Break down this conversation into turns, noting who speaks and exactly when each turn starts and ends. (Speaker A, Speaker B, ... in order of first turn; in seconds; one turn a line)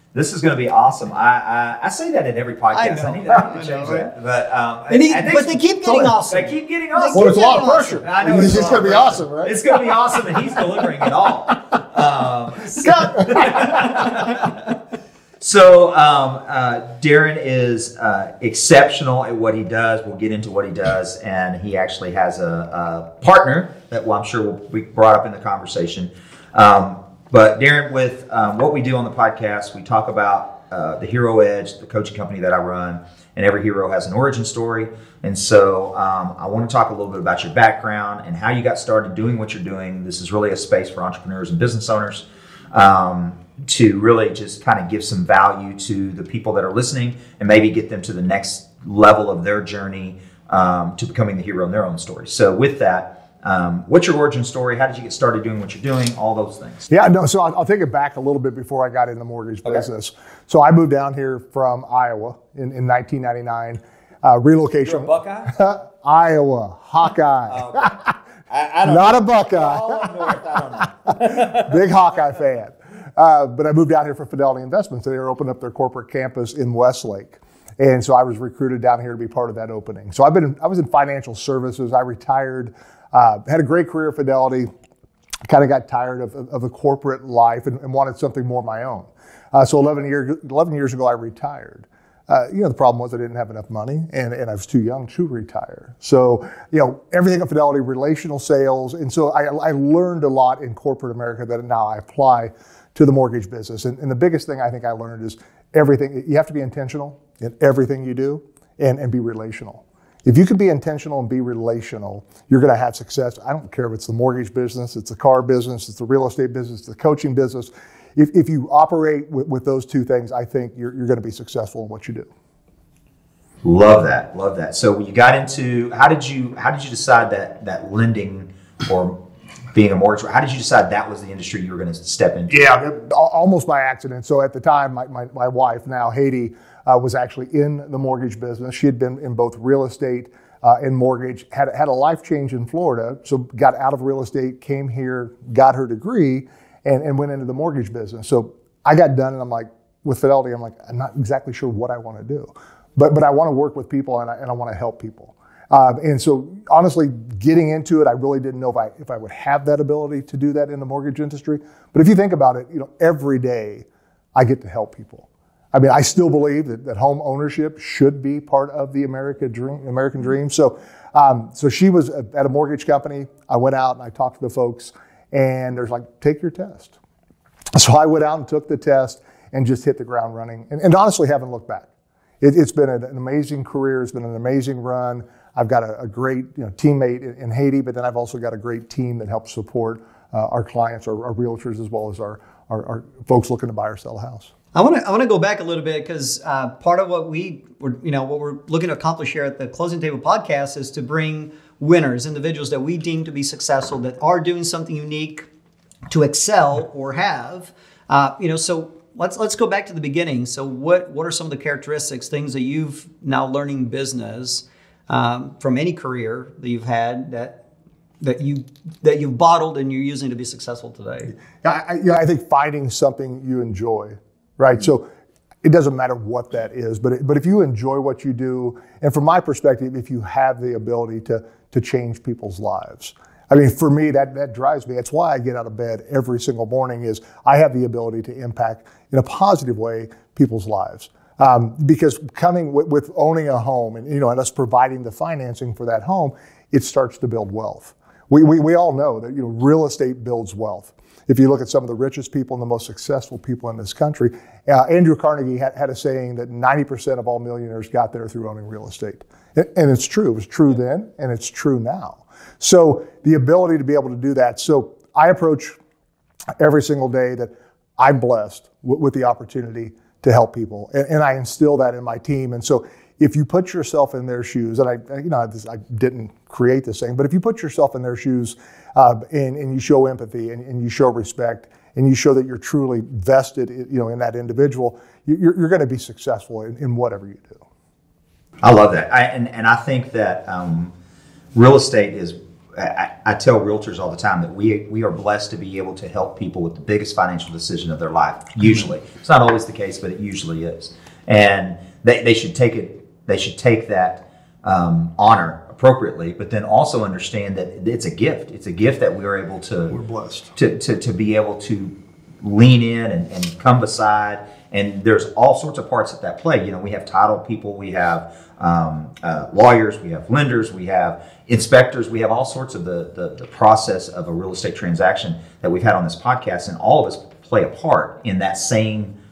Speaker A: 0.1-14.6
Speaker B: 2.7-4.0
Speaker C: 3.4-4.1
Speaker B: 4.9-8.1
Speaker C: 7.1-10.0
Speaker C: 12.8-14.2
Speaker A: 15.4-56.9
Speaker C: 56.9-68.1
Speaker A: 64.8-65.6
Speaker A: 67.5-68.0
Speaker A: 68.5-71.8
Speaker C: 68.8-70.4
Speaker C: 71.1-84.7
Speaker C: 85.5-122.3
Speaker A: 123.6-129.2
Speaker A: 129.7-132.6
Speaker C: 132.5-177.0
Speaker C: 177.8-181.9
Speaker C: 182.4-194.5
Speaker B: 194.7-205.5
Speaker B: 206.1-217.6
Speaker B: 218.2-221.3
Speaker C: 221.6-225.1
Speaker C: 225.6-265.8
Speaker C: 266.6-287.6
Speaker A: 288.6-290.9
Speaker A: 291.5-310.0
Speaker C: 309.9-310.5
Speaker A: 310.6-329.1